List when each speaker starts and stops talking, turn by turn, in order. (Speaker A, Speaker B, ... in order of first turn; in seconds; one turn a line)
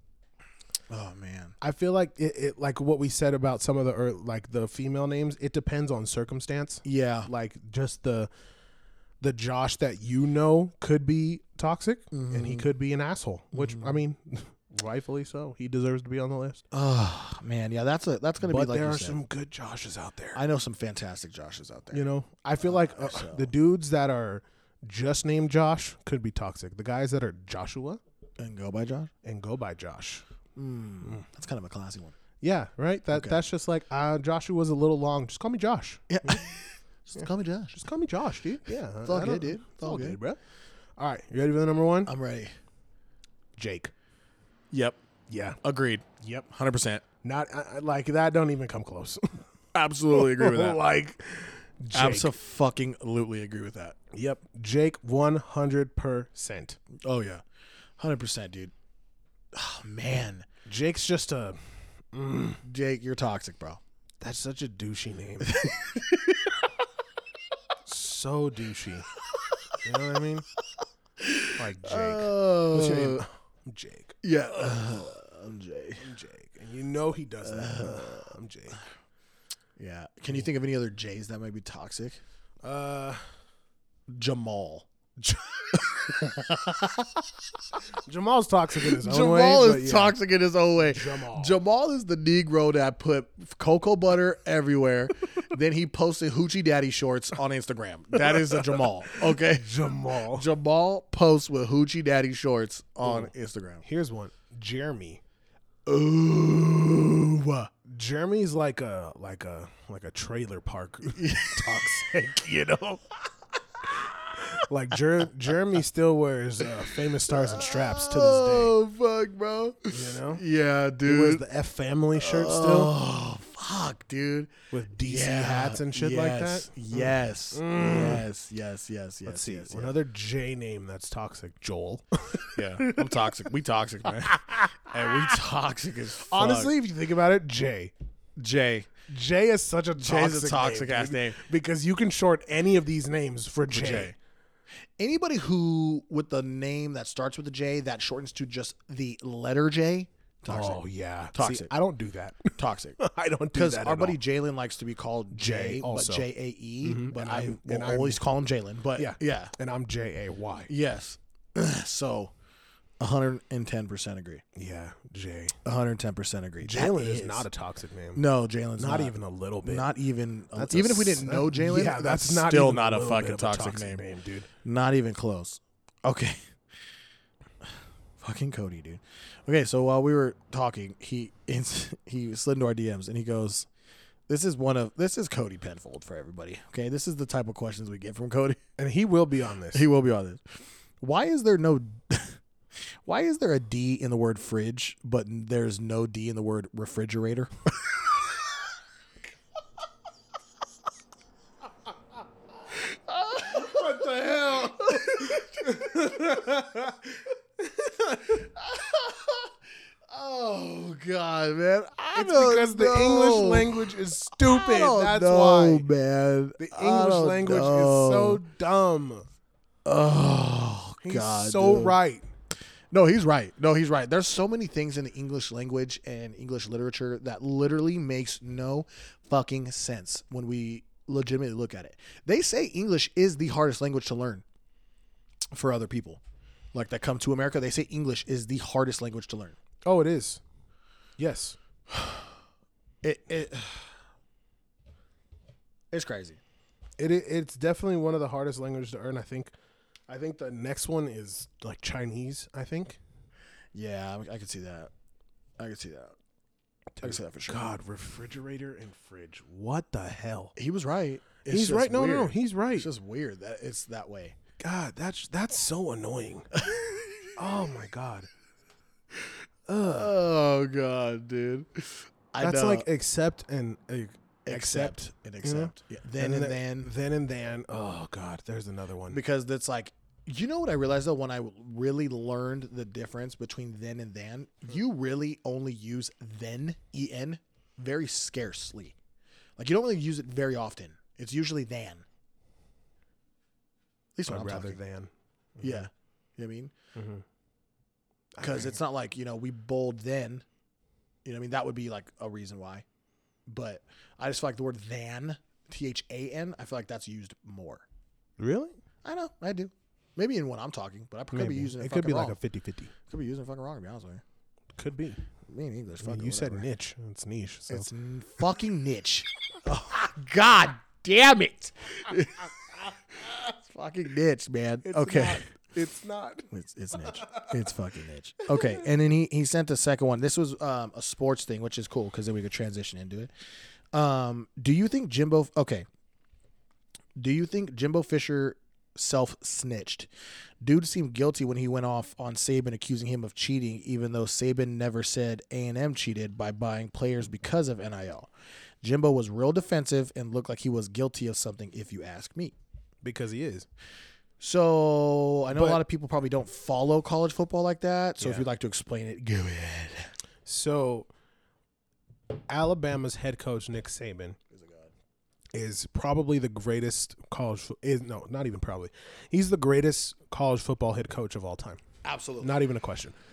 Speaker A: 0.9-1.6
Speaker B: 1.6-8.3
Speaker A: 6.8-7.3
Speaker B: 9.2-16.6
Speaker A: 12.1-12.7
Speaker A: 13.5-14.0
Speaker A: 16.7-19.2
Speaker B: 18.4-20.4
Speaker A: 20.3-22.1
Speaker B: 21.9-28.0
Speaker A: 22.6-23.5
Speaker A: 28.4-29.1
Speaker B: 29.2-30.2
Speaker A: 30.6-32.2
Speaker B: 32.4-36.5
Speaker A: 33.1-33.4
Speaker A: 36.1-37.7
Speaker B: 37.2-40.4
Speaker A: 39.0-40.2
Speaker B: 41.0-42.1
Speaker A: 42.0-42.5
Speaker B: 43.6-43.9
Speaker A: 44.7-45.0
Speaker B: 45.3-45.6
Speaker A: 45.6-47.0
Speaker B: 46.2-46.5
Speaker B: 47.2-49.4
Speaker A: 49.7-50.8
Speaker B: 50.1-52.3
Speaker A: 51.9-54.0
Speaker B: 54.1-56.8
Speaker A: 57.0-57.4
Speaker A: 58.0-58.7
Speaker A: 59.5-60.5
Speaker B: 60.7-61.6
Speaker B: 62.1-62.6
Speaker A: 62.6-63.8
Speaker B: 64.2-65.6
Speaker A: 65.4-66.6
Speaker B: 67.9-69.1
Speaker B: 69.8-70.5
Speaker A: 71.2-73.2
Speaker B: 71.5-74.2
Speaker A: 74.2-76.0
Speaker B: 76.0-78.8
Speaker A: 77.4-78.3
Speaker A: 79.8-82.2
Speaker B: 82.6-83.2
Speaker A: 84.1-84.9
Speaker B: 85.2-85.7
Speaker A: 85.7-87.6
Speaker B: 88.0-90.2
Speaker A: 88.8-103.8
Speaker B: 90.8-91.6
Speaker B: 98.3-100.5
Speaker B: 103.0-103.3
Speaker B: 103.8-105.2
Speaker A: 105.9-107.7
Speaker B: 107.9-113.0
Speaker A: 111.1-112.1
Speaker A: 113.8-114.4
Speaker B: 114.4-118.8
Speaker A: 116.6-121.4
Speaker B: 119.9-120.4
Speaker B: 121.0-122.9
Speaker A: 122.2-129.9
Speaker B: 124.7-128.3
Speaker B: 129.3-133.4
Speaker A: 132.6-136.7
Speaker B: 136.3-137.9
Speaker A: 138.4-138.9
Speaker B: 139.1-144.1
Speaker A: 140.0-141.4
Speaker A: 143.7-144.1
Speaker A: 145.0-150.8
Speaker B: 150.5-154.2
Speaker A: 151.3-151.7
Speaker A: 152.6-153.0
Speaker A: 153.5-159.5
Speaker B: 155.3-156.3
Speaker B: 156.8-158.2
Speaker B: 158.9-160.7
Speaker A: 160.7-162.3
Speaker A: 163.0-164.4
Speaker B: 164.6-165.6
Speaker A: 165.6-167.5
Speaker B: 166.6-168.2
Speaker A: 168.2-174.0
Speaker B: 168.8-169.9
Speaker B: 170.6-174.5
Speaker A: 174.6-176.5
Speaker A: 178.2-183.7
Speaker A: 184.3-188.6
Speaker B: 188.8-189.8
Speaker A: 189.7-197.9
Speaker A: 202.7-206.6
Speaker B: 203.5-207.2
Speaker B: 207.8-208.3
Speaker A: 208.1-209.5
Speaker A: 210.1-218.4
Speaker B: 212.1-215.9
Speaker B: 216.6-219.3
Speaker A: 219.8-222.0
Speaker B: 221.0-222.3
Speaker A: 222.9-234.4
Speaker A: 235.5-236.2
Speaker A: 236.7-239.6
Speaker B: 239.8-240.4
Speaker B: 241.2-241.6
Speaker A: 243.0-243.9
Speaker A: 245.9-246.4
Speaker B: 247.0-249.5
Speaker B: 250.1-253.0
Speaker A: 253.7-254.9
Speaker A: 255.6-256.2
Speaker B: 257.0-260.5
Speaker A: 257.0-257.6
Speaker A: 260.6-264.4
Speaker B: 261.5-262.9
Speaker B: 264.6-266.5
Speaker A: 266.5-267.4
Speaker B: 267.4-268.3
Speaker B: 269.7-270.1
Speaker A: 269.8-272.9
Speaker B: 272.4-279.2
Speaker A: 274.4-276.9
Speaker A: 279.1-288.9
Speaker A: 289.6-292.1
Speaker A: 294.1-294.8
Speaker B: 294.3-295.9
Speaker A: 295.6-296.7
Speaker B: 296.9-297.2
Speaker B: 298.3-298.8
Speaker A: 298.4-300.4
Speaker A: 301.2-302.8
Speaker A: 303.5-307.8
Speaker B: 308.4-308.8
Speaker A: 309.0-312.4
Speaker B: 311.3-312.9
Speaker A: 313.1-314.2
Speaker B: 314.8-315.2
Speaker A: 315.5-316.7
Speaker B: 316.0-317.9
Speaker A: 317.7-325.4
Speaker B: 324.8-327.6
Speaker A: 326.5-333.3
Speaker B: 328.5-328.7
Speaker A: 333.9-335.9
Speaker A: 337.2-340.1
Speaker A: 340.6-348.3
Speaker A: 348.8-352.6
Speaker B: 353.0-353.7
Speaker A: 354.4-360.1
Speaker B: 355.5-355.8
Speaker B: 358.2-358.4
Speaker B: 360.4-361.1
Speaker B: 362.5-364.4
Speaker A: 364.5-364.9
Speaker B: 365.5-371.8
Speaker A: 372.0-372.5
Speaker B: 372.4-373.1